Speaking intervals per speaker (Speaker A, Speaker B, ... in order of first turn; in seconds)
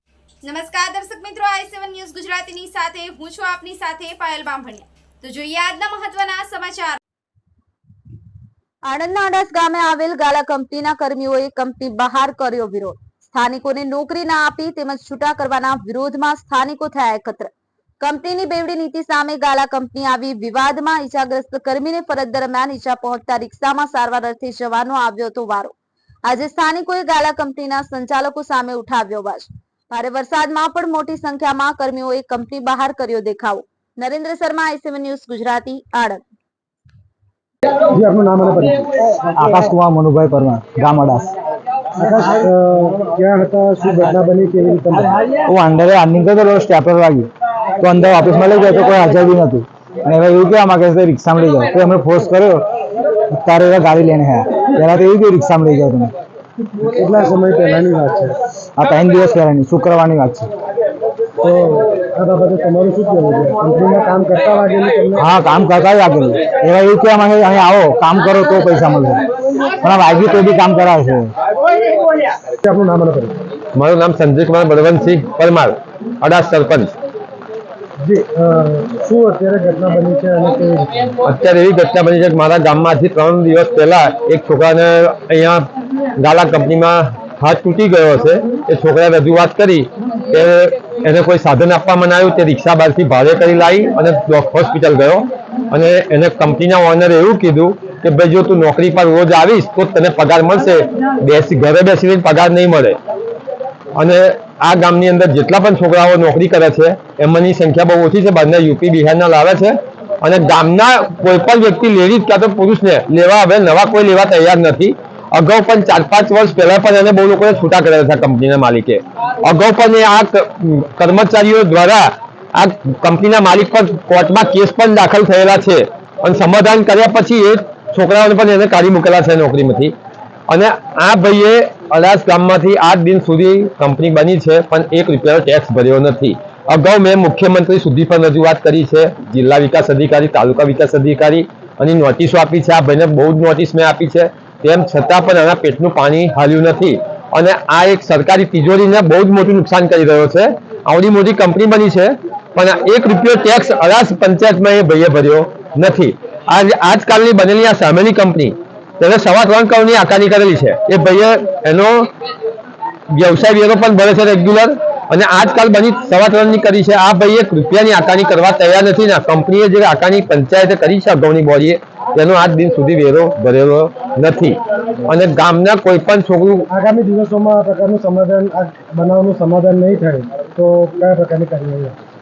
Speaker A: 0.4-7.0
Speaker B: 8.8-17.5, 18.0-25.7, 26.3-36.2
Speaker C: 37.9-38.9, 42.0-45.2, 56.9-58.4, 61.4-65.3, 72.6-73.4, 78.0-81.1, 176.7-182.0
Speaker D: 39.4-41.3, 45.5-47.3, 47.8-52.6, 53.3-56.1, 58.8-60.5, 65.2-69.2, 69.8-71.3
Speaker E: 73.8-76.9, 81.3-103.0, 104.0-129.9, 130.5-162.1, 163.1-176.7